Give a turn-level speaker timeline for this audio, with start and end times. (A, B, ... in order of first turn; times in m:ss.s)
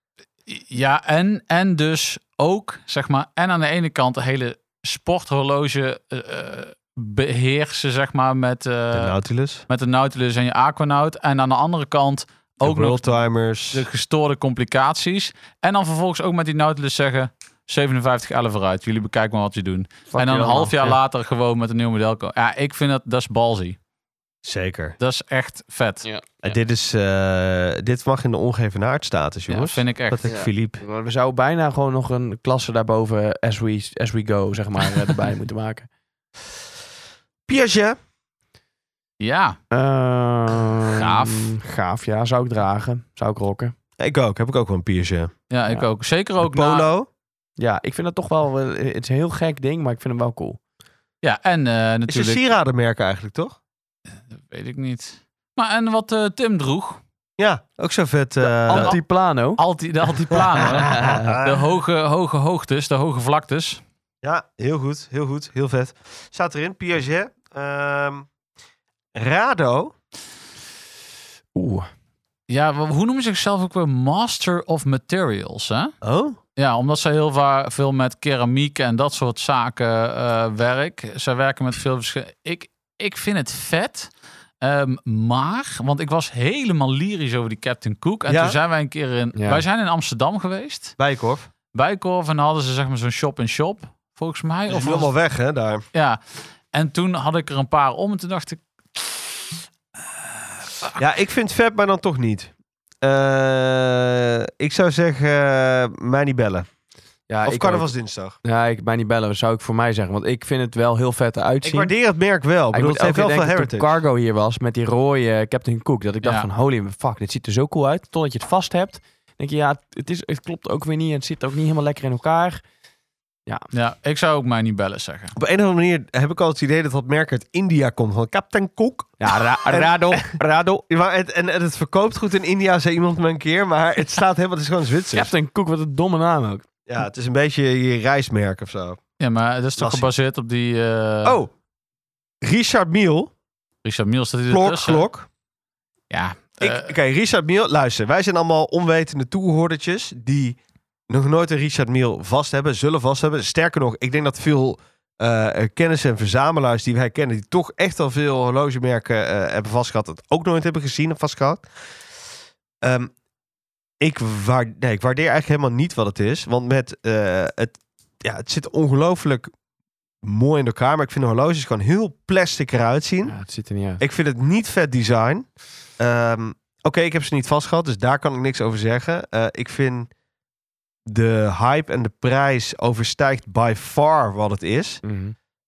0:00.5-0:09.1 A
0:08.9-0:09.6 B
0:09.7-0:13.2 A
0:12.6-0:13.8 B
0:13.7-0:23.8 A
0:20.1-0:21.0 C
0:24.4-0:25.0 B
0:25.0-0:26.0 A
0:26.4-0:30.8 B
0:29.5-0:30.2 A
0:30.2-0:35.9 C
0:37.5-0:38.0 B
0:39.2-0:39.6 A
0:39.7-0:43.7 C
0:40.9-0:41.5 A
0:44.0-0:45.3 B
0:45.5-0:46.9 A
0:46.4-0:47.1 B
0:47.6-0:50.6 C
0:51.2-0:52.4 A
0:52.1-0:53.6 B
0:54.3-0:57.0 A
0:57.4-0:58.9 B
0:58.4-0:59.6 C
0:58.7-0:59.0 A
0:59.6-1:03.8 A
1:00.4-1:01.6 B
1:00.7-1:01.3 C
1:04.2-1:08.3 B
1:09.1-1:09.9 B
1:11.5-1:11.9 C
1:12.5-1:15.9 A
1:16.0-1:16.4 B
1:16.6-1:24.1 A
1:24.6-1:30.9 A
1:28.3-1:28.6 B
1:29.3-1:29.6 C
1:31.0-1:31.5 B
1:31.7-1:35.1 A
1:34.7-1:35.8 B
1:35.9-1:36.2 A
1:36.7-1:39.2 A
1:41.0-1:46.7 B
1:47.3-1:47.9 C
1:47.4-1:48.4 B
1:48.4-1:51.9 C
1:51.6-1:53.9 B
1:52.7-2:02.6 C
2:03.7-2:05.3 A
2:05.4-2:15.3 B
2:09.2-2:10.6 C
2:15.1-2:16.6 C
2:16.9-2:19.0 B
2:19.2-2:21.4 A
2:19.8-2:20.1 B
2:21.2-2:21.5 B
2:22.4-2:23.3 B
2:23.8-2:25.0 A
2:24.5-2:25.3 B
2:26.1-2:26.9 A
2:26.6-2:30.6 B
2:31.1-2:41.7 B
2:42.8-2:43.1 B
2:44.0-2:49.5 B
2:50.2-2:53.3 B
2:53.2-2:54.0 C
2:54.0-2:55.5 B
2:56.0-3:00.1 B
3:01.1-3:05.0 B
3:05.0-3:05.3 C